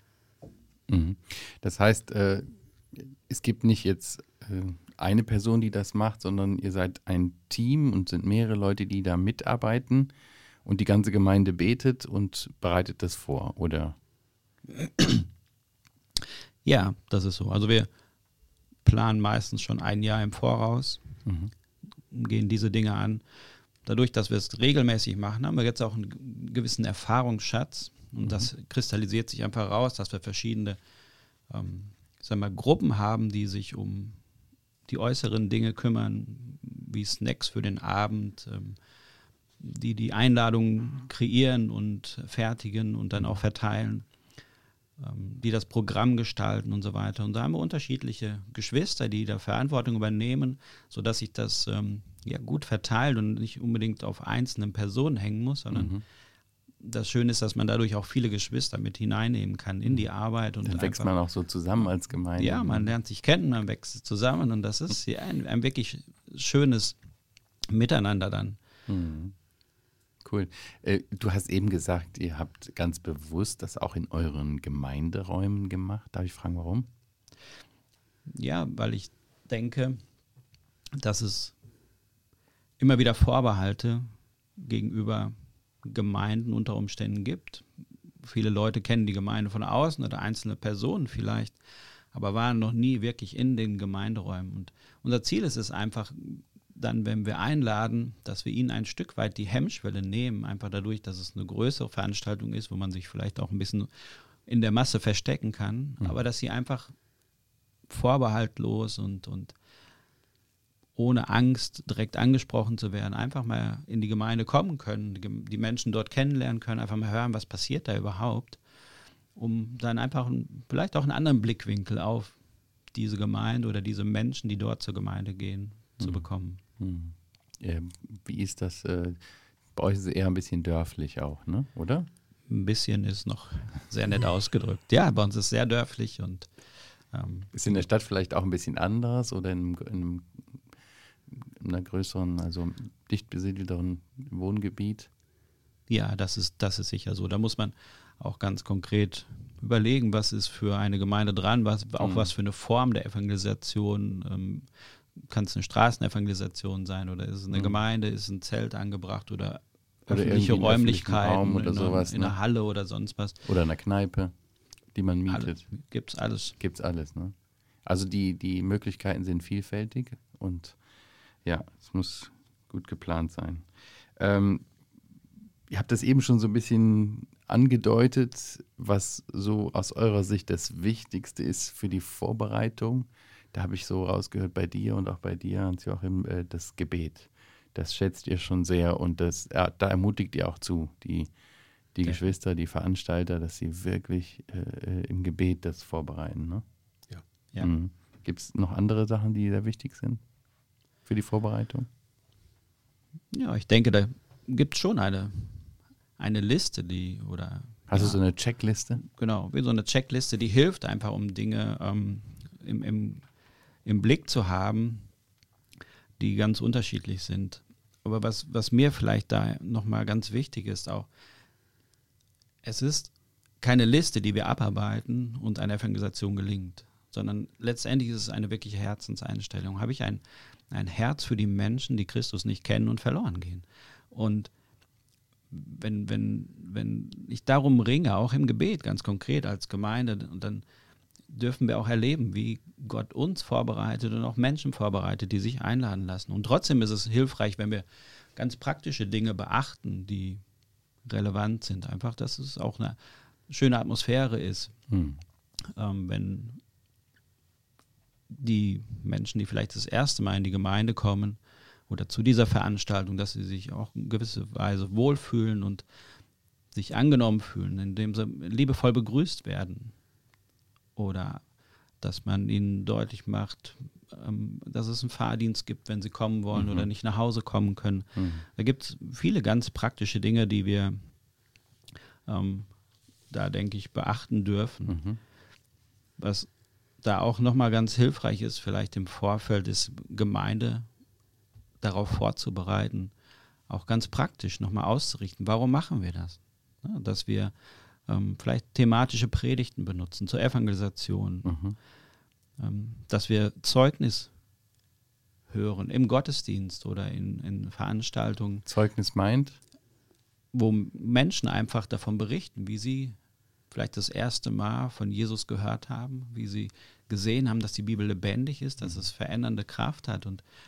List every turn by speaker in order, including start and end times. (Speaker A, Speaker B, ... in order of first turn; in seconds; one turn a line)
Speaker A: 0.9-10.1
Speaker A: 10.6-14.0
Speaker B: 14.7-15.3
Speaker B: 16.6-17.9
Speaker B: 18.8-21.0
Speaker A: 21.2-21.5
Speaker B: 22.1-23.2
Speaker B: 23.8-30.8
Speaker A: 28.2-28.5
Speaker B: 31.5-34.2
Speaker B: 34.9-38.8
Speaker B: 39.6-44.1
Speaker B: 45.0-55.9
Speaker A: 55.7-56.0
Speaker B: 56.8-61.1
Speaker A: 60.6-62.9
Speaker B: 62.4-67.0
Speaker B: 67.7-68.6
Speaker A: 68.9-69.3
Speaker A: 70.2-76.9
Speaker B: 78.3-80.0
Speaker B: 81.0-81.5
Speaker B: 82.8-87.7
Speaker B: 88.2-91.6
Speaker B: 92.1-106.9
Speaker B: 107.9-109.5
Speaker B: 111.0-118.6
Speaker B: 119.3-122.4
Speaker B: 122.9-126.6
Speaker A: 126.0-129.2
Speaker A: 129.7-132.1
Speaker B: 132.5-136.5
Speaker B: 137.1-137.8
Speaker A: 137.5-140.6
Speaker A: 141.3-145.1
Speaker B: 145.9-163.4
Speaker A: 152.0-152.3
Speaker A: 160.1-162.3
Speaker A: 163.4-164.3
Speaker A: 164.9-165.7
Speaker B: 165.3-166.6
Speaker A: 166.6-170.8
Speaker A: 171.4-174.7
Speaker A: 175.7-191.3
Speaker A: 191.9-196.6
Speaker A: 197.6-200.2
Speaker A: 201.1-201.9
Speaker B: 203.3-208.2
Speaker A: 207.9-209.0
Speaker B: 209.0-213.3
Speaker B: 213.8-215.1
Speaker B: 216.2-221.1
Speaker B: 222.6-234.5
Speaker B: 235.5-240.6
Speaker B: 241.3-250.4
Speaker B: 251.0-254.7
Speaker A: 254.9-255.2
Speaker B: 255.7-256.6
Speaker B: 258.3-265.8
Speaker B: 266.7-269.9
Speaker B: 270.9-271.4
Speaker B: 272.0-281.0
Speaker A: 276.5-276.9
Speaker A: 278.1-278.4
Speaker B: 282.2-282.7
Speaker B: 283.3-285.0
Speaker A: 284.9-285.2
Speaker B: 286.2-286.5
Speaker B: 287.0-290.9
Speaker B: 291.8-293.1
Speaker B: 293.7-297.5
Speaker B: 298.1-301.5
Speaker A: 301.4-301.8
Speaker B: 302.6-304.3
Speaker B: 305.5-308.6
Speaker A: 308.6-309.6
Speaker B: 310.5-313.1
Speaker B: 313.7-320.4